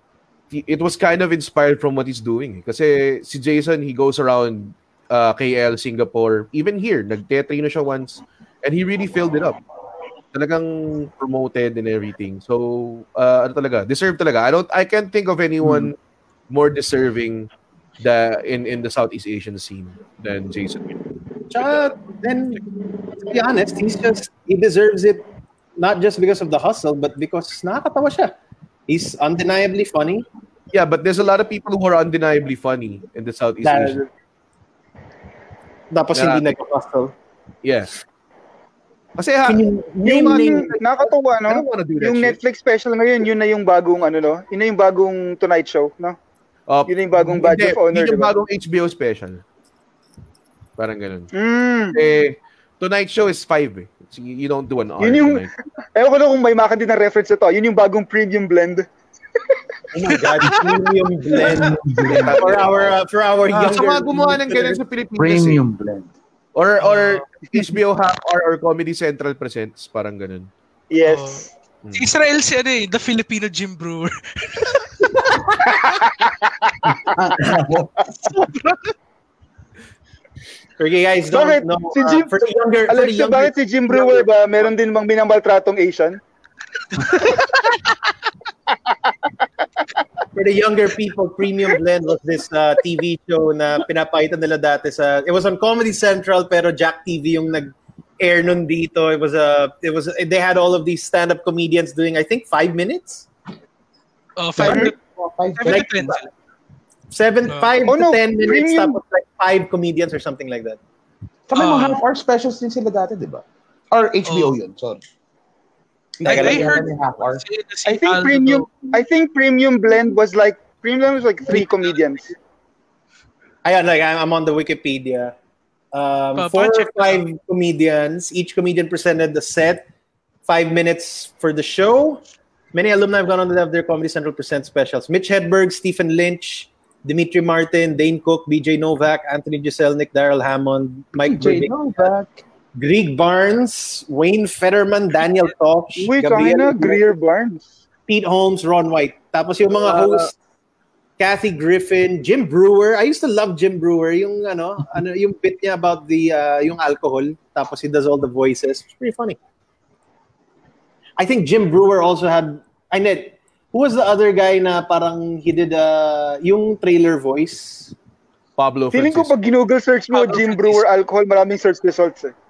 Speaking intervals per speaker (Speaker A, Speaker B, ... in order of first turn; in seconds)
Speaker A: 0.5-9.6, 10.3-16.0, 16.5-21.0, 21.6-21.9, 30.7-34.0, 36.1-36.5, 37.6-37.9, 39.2-42.4, 46.7-49.4, 50.8-51.3, 51.9-55.5, 62.1-65.6, 66.5-70.5, 71.8-72.1, 149.8-150.3, 168.6-169.3
Speaker B: 21.5-22.6, 23.1-28.3, 28.9-30.2, 33.6-34.1, 35.9-37.1, 39.5-40.7, 59.9-64.8, 80.8-84.3, 90.3-103.3, 104.6-104.9, 105.6-106.2, 107.1-110.8, 116.2-116.9, 123.6-125.3, 125.9-129.8, 130.4-132.2, 132.7-142.1, 142.8-147.1, 148.1-150.3, 151.2-159.4, 161.2-167.9
Speaker C: 40.0-46.2, 46.9-48.3, 51.3-52.0, 55.0-58.9, 70.9-71.5, 81.3-82.3, 82.9-86.2, 107.9-109.0, 117.8-122.3, 146.0-147.7, 168.9-172.3
Speaker D: 61.3-62.5, 65.2-66.1, 77.1-78.0, 104.6-106.1, 111.5-115.0, 116.2-117.4, 141.2-142.4
Speaker E: 66.8-67.2, 71.0-74.8, 104.4-105.0, 105.5-106.3, 107.4-107.8, 111.5-112.0, 114.2-114.5, 116.2-118.7, 126.3-127.2, 170.1-170.8